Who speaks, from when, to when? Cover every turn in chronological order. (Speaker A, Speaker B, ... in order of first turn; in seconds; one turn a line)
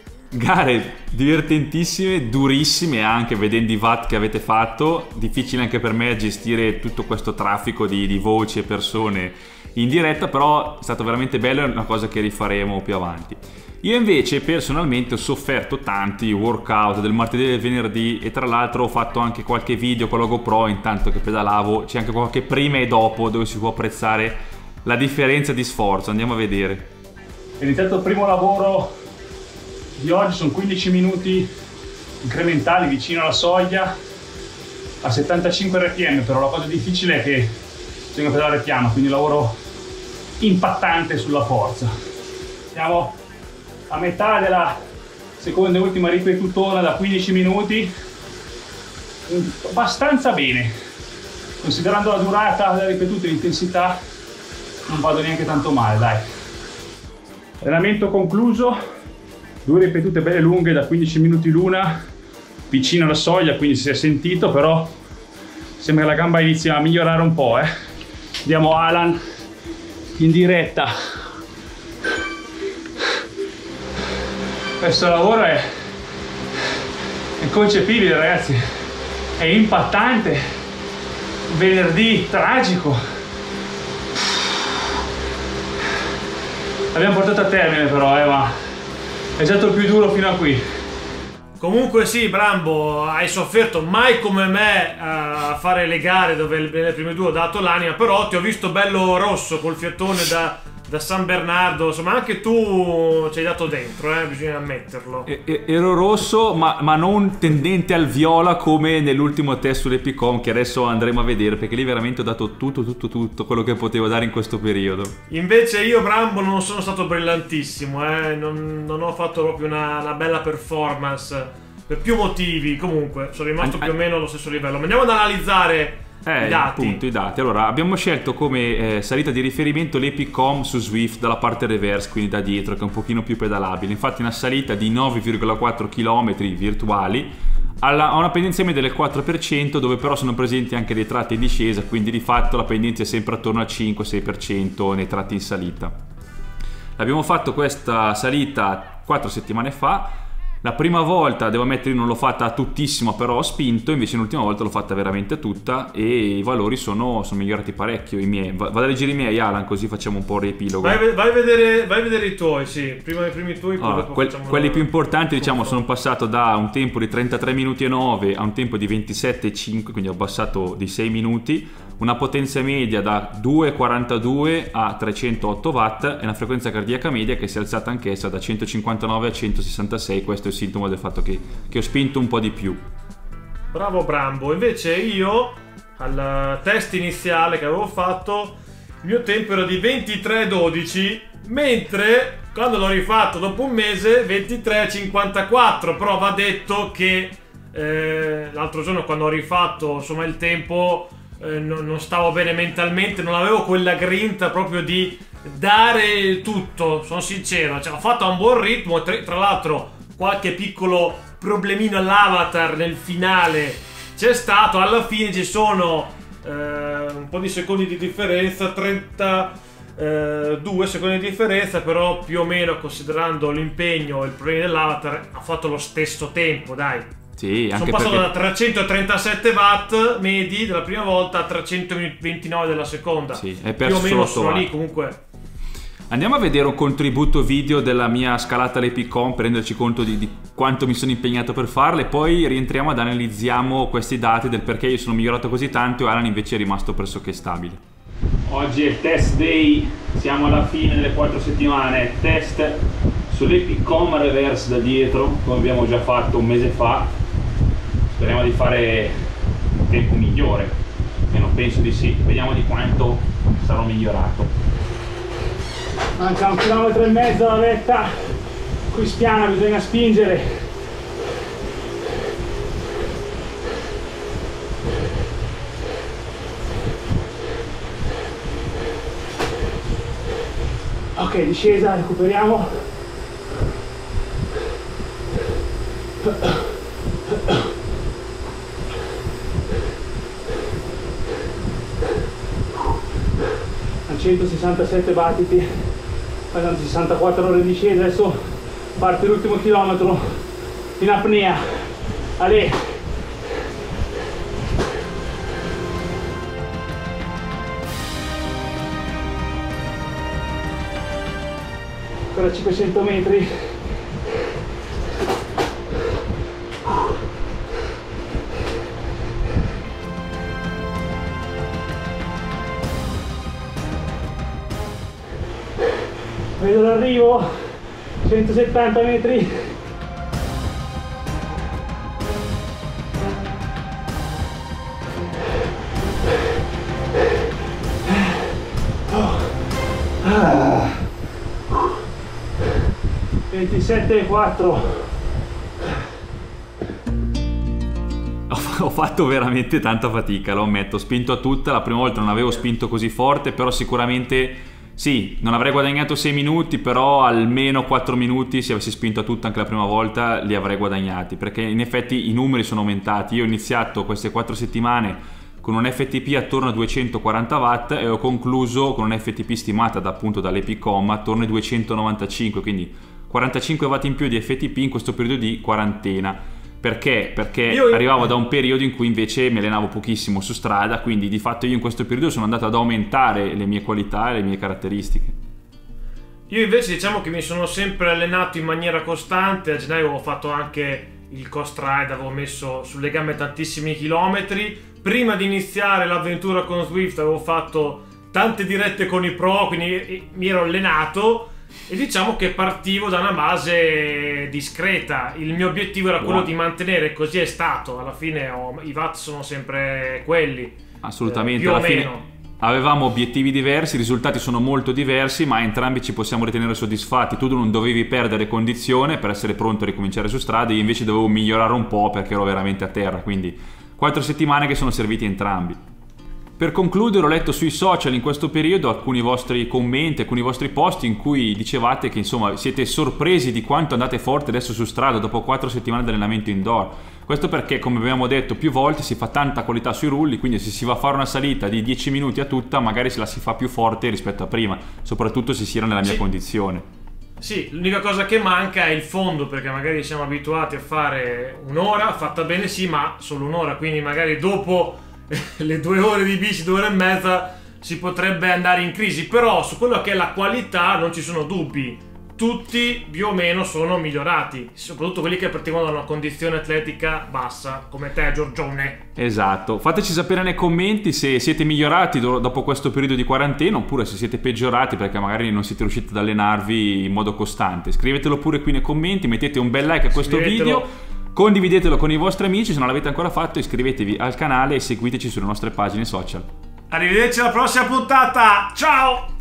Speaker A: 0.3-26.9
Speaker B: 27.6-28.9
Speaker B: 30.0-31.5
Speaker B: 32.2-33.9
Speaker B: 35.0-37.5
Speaker B: 38.1-39.6
Speaker B: 40.4-41.9
Speaker B: 42.7-43.2
Speaker B: 43.9-44.8
Speaker B: 45.4-47.9
Speaker B: 49.3-50.7
Speaker B: 51.6-54.0
Speaker B: 54.9-56.2
Speaker B: 57.6-58.8
Speaker B: 59.6-62.0
Speaker B: 62.7-65.0
Speaker B: 65.8-67.7
Speaker B: 68.4-69.2
Speaker B: 70.1-70.9
Speaker B: 74.8-75.7
Speaker B: 77.4-78.6
Speaker B: 79.4-80.4
Speaker B: 81.5-83.0
Speaker B: 86.9-88.5
Speaker B: 89.4-90.6
Speaker C: 91.6-105.3
Speaker A: 105.2-115.1
Speaker C: 115.3-127.0
Speaker A: 123.6-123.9
Speaker A: 126.2-145.9
Speaker A: 147.0-161.0
Speaker C: 160.8-165.8
Speaker A: 163.8-182.8
Speaker C: 183.7-227.1
Speaker A: 227.4-228.3
Speaker C: 227.7-235.2
Speaker A: 233.3-234.7
Speaker A: 236.1-247.8
Speaker A: 248.5-257.1
Speaker A: 258.1-259.1
Speaker A: 259.9-260.8
Speaker A: 261.3-264.5
Speaker B: 266.2-268.1
Speaker B: 268.9-270.6
Speaker B: 281.1-282.8
Speaker B: 286.2-286.6
Speaker B: 294.1-295.9
Speaker B: 296.5-300.4
Speaker B: 301.0-301.9
Speaker B: 302.4-302.8
Speaker B: 312.3-313.5
Speaker B: 326.6-327.5
Speaker B: 328.2-329.7
Speaker B: 339.1-339.4
Speaker B: 340.2-341.0
Speaker B: 343.5-345.1
Speaker A: 348.5-385.4
Speaker C: 377.7-378.3
Speaker C: 386.5-412.2
Speaker A: 406.2-406.5
Speaker A: 411.0-425.8
Speaker A: 426.6-446.8
Speaker C: 447.4-469.0
Speaker A: 469.2-486.5
Speaker C: 480.1-480.9
Speaker C: 486.9-489.3